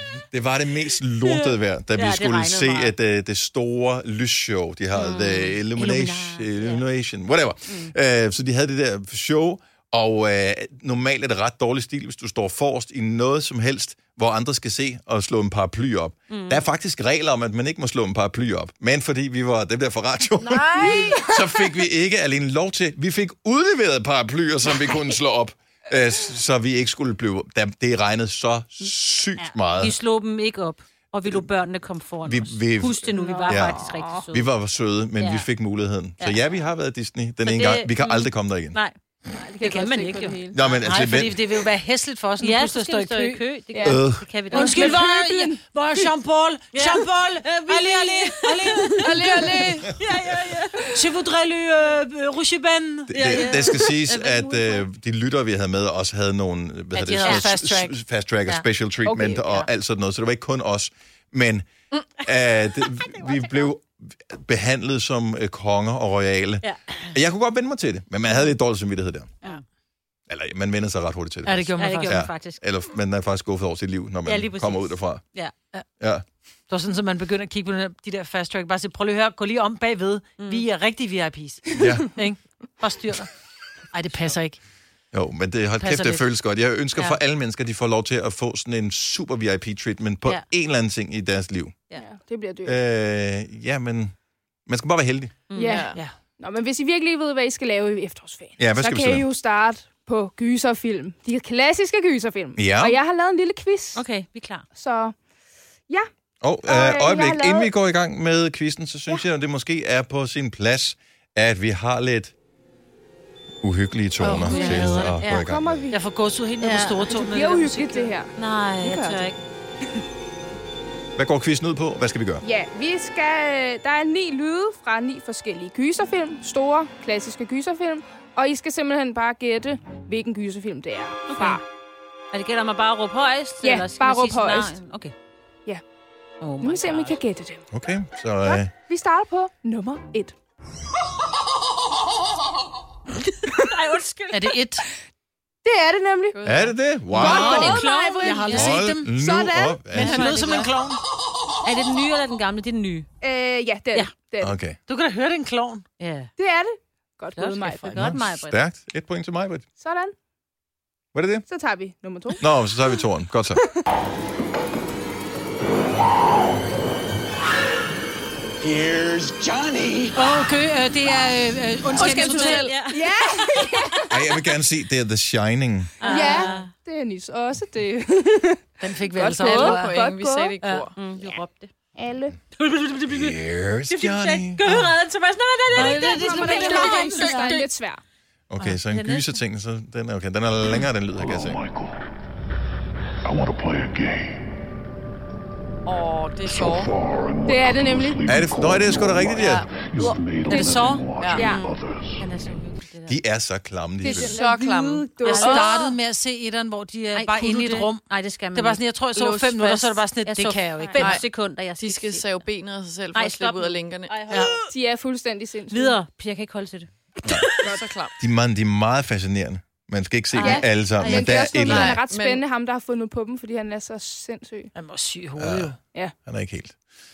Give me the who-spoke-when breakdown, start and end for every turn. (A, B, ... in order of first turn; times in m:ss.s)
0:00.2-0:29.9 A
0:01.2-0:02.9 B
0:04.9-0:06.8 B
0:07.7-0:07.9 B
0:16.3-0:16.6 B
0:20.4-0:21.3 C
0:20.8-0:21.2 D
0:29.4-0:34.5 B
0:32.2-0:38.8 A
0:33.1-0:34.2 D
0:35.2-0:35.5 B
0:37.4-0:40.5 B
0:39.6-0:40.6 D
0:40.5-0:41.4 A
0:40.8-0:43.4 E
0:42.4-0:45.0 B
0:43.7-0:45.6 D
0:43.8-0:44.3 A
0:44.5-0:49.6 E
0:46.7-0:51.0 B
0:49.0-0:49.9 C
0:49.1-0:49.6 D
0:50.9-0:53.5 E
0:53.1-1:01.7 A
0:53.1-0:54.8 B
0:56.9-0:58.6 E
0:57.2-0:57.4 B
0:59.0-0:59.4 D
1:02.2-1:09.3 A
1:06.6-1:07.1 B
1:10.3-1:15.2 A
1:11.4-1:12.3 E
1:11.8-1:12.6 B
1:14.2-1:15.5 B
1:16.0-1:16.2 A
1:16.7-1:23.3 E
1:21.8-1:22.1 A
1:23.9-1:24.6 E
1:25.1-1:31.8 A
1:25.8-1:26.2 E
1:31.9-1:32.8 D
1:32.6-1:34.1 A
1:34.6-1:35.4 A
1:35.5-1:35.8 B
1:35.5-1:44.0 D
1:35.6-1:36.0 C
1:38.6-1:39.2 A
1:42.6-1:43.0 A
1:43.9-1:44.6 B
1:44.7-1:45.2 D
1:46.4-1:52.3 A
1:46.6-1:47.7 D
1:53.6-1:55.8 A
1:54.2-1:58.1 E
1:54.4-1:55.2 B
1:55.2-1:56.0 D
1:56.6-1:57.1 B
1:57.1-1:59.3 D
1:58.4-1:59.4 B
2:01.2-2:02.4 A
2:02.4-2:11.6 D
2:11.3-2:11.6 B
2:12.3-2:15.1 B
2:13.6-2:14.8 D
2:16.4-2:17.2 B
2:16.6-2:17.6 D
2:17.7-2:18.7 A
2:18.4-2:20.3 D
2:23.5-2:24.6 B
2:24.3-2:24.8 E
2:25.6-2:26.4 D
2:26.3-2:26.8 C
2:26.4-2:27.8 A
2:27.1-2:29.8 D
2:27.1-2:28.7 B
2:27.2-2:29.2 E
2:28.5-2:30.4 A
2:29.9-2:31.0 E
2:29.9-2:30.7 B
2:31.6-2:33.1 B
2:33.2-2:34.6 D
2:34.4-2:34.8 A
2:34.9-2:35.9 E
2:36.0-2:36.3 B
2:36.4-2:38.0 D
2:37.4-2:38.6 B
2:37.9-2:39.6 A
2:39.8-2:40.1 D
2:41.1-2:41.4 A
2:41.5-2:42.4 D
2:42.4-2:43.6 A
2:50.1-2:52.7 E
2:51.9-2:52.8 C
2:52.0-2:54.1 B
2:52.9-2:54.1 D
2:54.1-2:56.0 A
2:56.0-2:56.7 B
2:56.0-3:00.5 D
2:56.0-2:56.6 E
2:58.8-2:59.9 E
2:59.4-3:01.0 C
3:00.6-3:00.9 E
3:01.0-3:01.7 B
3:02.0-3:02.4 D
3:02.6-3:07.6 B
3:03.1-3:05.0 A
3:05.7-3:07.6 E
3:05.7-3:08.0 D
3:08.5-3:11.6 A
3:08.8-3:09.4 B
3:11.2-3:12.1 F
3:13.2-3:14.6 F
3:15.8-3:16.9 C
3:16.4-3:22.3 F
3:17.4-3:18.3 D
3:18.3-3:19.7 A
3:19.4-3:19.7 C
3:20.0-3:21.6 D
3:20.5-3:21.0 E
3:20.8-3:21.6 B
3:21.2-3:21.5 C
3:22.2-3:23.2 B
3:23.1-3:24.4 A
3:24.0-3:25.9 D
3:24.1-3:25.9 C
3:25.2-3:25.6 B
3:25.2-3:31.2 E
3:27.1-3:28.8 B
3:29.1-3:30.1 C
3:30.2-3:32.4 B
3:31.0-3:34.1 C
3:33.1-3:34.7 B
3:34.3-3:34.6 E
3:34.7-3:36.0 D
3:35.7-3:37.8 B
3:37.2-3:37.5 A
3:37.6-3:38.1 C
3:38.2-3:42.0 A
3:40.3-3:41.9 B
3:40.4-3:44.7 D
3:41.6-3:42.4 C
3:44.7-3:45.8 E
3:45.4-3:46.8 A